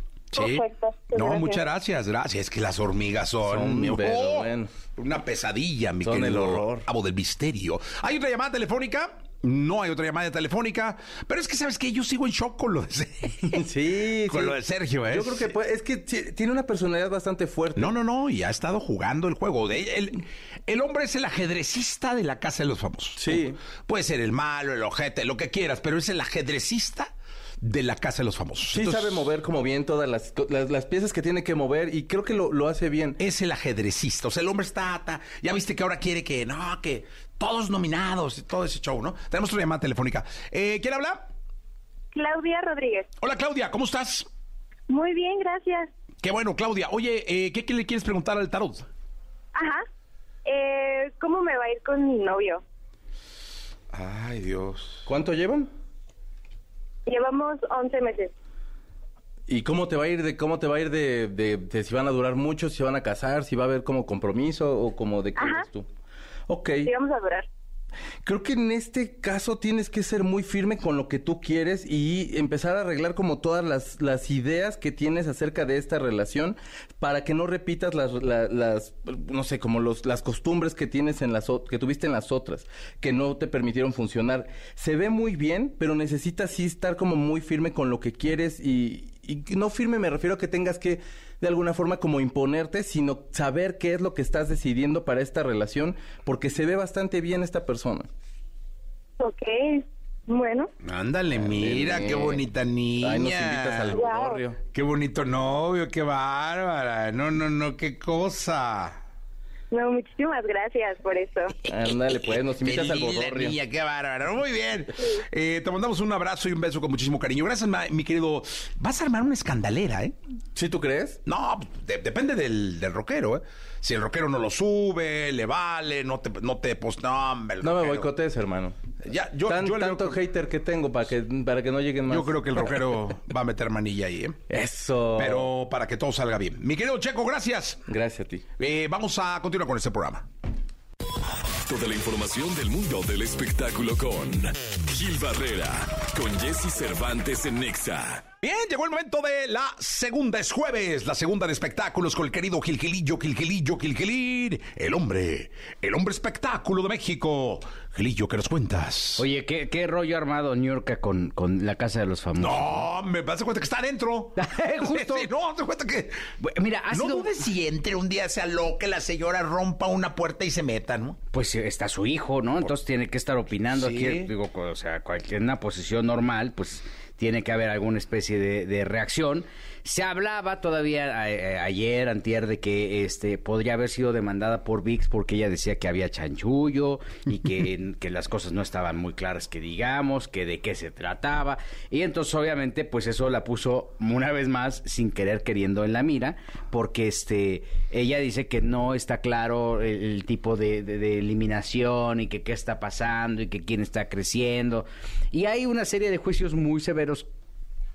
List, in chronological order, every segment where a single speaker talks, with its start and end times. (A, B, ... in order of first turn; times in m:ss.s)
0:00.3-0:13.6 A
0:00.3-0:01.6 B
0:03.4-0:04.7 C
0:06.0-0:06.8 C
0:13.5-0:14.6 C
0:14.3-0:15.5 A
0:15.1-0:17.9 C
0:17.8-0:29.2 A
0:23.2-0:23.6 C
0:28.7-0:33.2 C
0:33.2-0:41.3 A
0:42.1-0:43.1 B
0:43.2-0:44.3 A
0:44.9-0:45.9 B
0:46.2-0:48.9 A
0:49.5-0:49.8 B
0:50.4-0:52.6 B
0:53.9-0:55.1 A
0:55.0-0:55.7 C
0:57.0-0:58.3 B
0:59.5-1:05.9 C
1:05.4-1:05.6 B
1:06.5-1:06.9 C
1:06.8-1:07.5 B
1:08.2-1:38.1 C
1:39.2-1:40.7 B
1:40.8-1:44.0 A
1:41.5-1:42.4 C
1:43.0-1:44.6 C
1:43.9-1:44.4 B
1:44.7-1:49.0 A
1:49.7-1:51.5 B
1:51.7-1:53.6 C
1:52.3-2:00.1 A
2:00.5-2:01.2 C
2:01.2-2:08.1 A
2:07.6-2:08.8 C
2:09.0-2:10.2 A
2:09.5-2:13.0 C
2:12.1-2:14.4 A
2:14.5-2:15.5 C
2:15.2-2:17.8 A
2:17.9-2:18.4 C
2:18.6-2:20.3 A
2:21.6-2:28.3 D
2:28.4-2:39.2 A
2:39.2-2:42.9 E
2:42.4-2:46.3 A
2:44.4-2:45.3 E
2:46.4-2:47.4 E
2:46.9-2:51.2 A
2:51.3-3:27.3 E
2:53.7-2:54.3 A